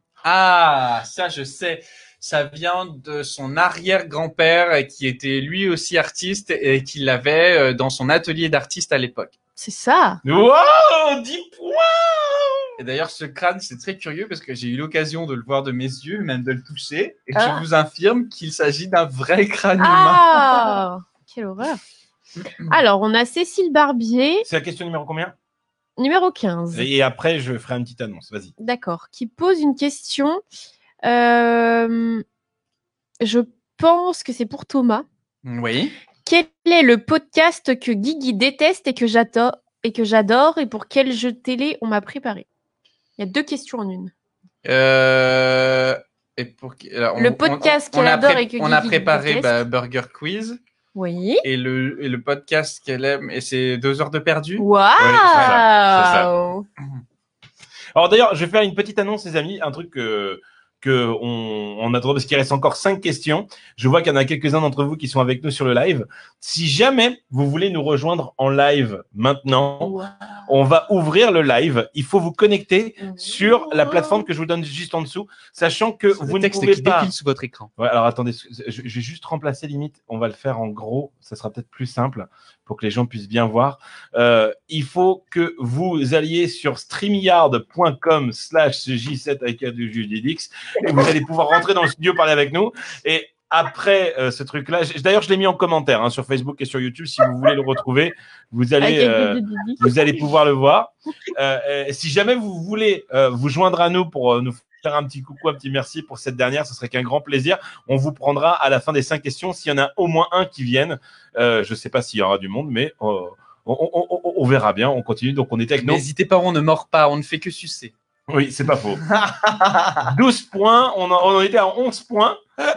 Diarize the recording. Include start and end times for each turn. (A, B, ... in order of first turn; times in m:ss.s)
0:00.2-0:09.3 A
0:09.6-0:10.2 B
0:10.2-0:12.7 C
0:12.8-0:20.4 A
0:17.4-0:17.6 B
0:19.8-0:21.8 B
0:22.4-0:22.8 A
0:22.7-0:24.4 B
0:24.4-0:25.3 C
0:26.0-0:26.9 B
0:26.7-0:28.5 C
0:28.6-0:30.4 B
0:31.0-0:32.2 B
0:33.2-0:35.0 B
0:35.4-0:36.0 A
0:36.2-0:42.4 B
0:43.2-0:44.1 B
0:44.6-0:50.6 A
0:47.2-0:49.6 B
0:50.9-0:51.4 B
0:51.4-0:54.6 A
0:54.6-0:56.6 B
0:55.0-0:56.3 C
0:57.9-1:10.0 C
1:10.5-1:17.1 C
1:16.2-1:17.7 A
1:17.8-1:56.0 C
1:38.8-1:40.0 B
1:55.8-1:57.9 A
1:58.3-1:59.0 C
1:59.1-2:00.0 A
2:00.0-2:02.4 C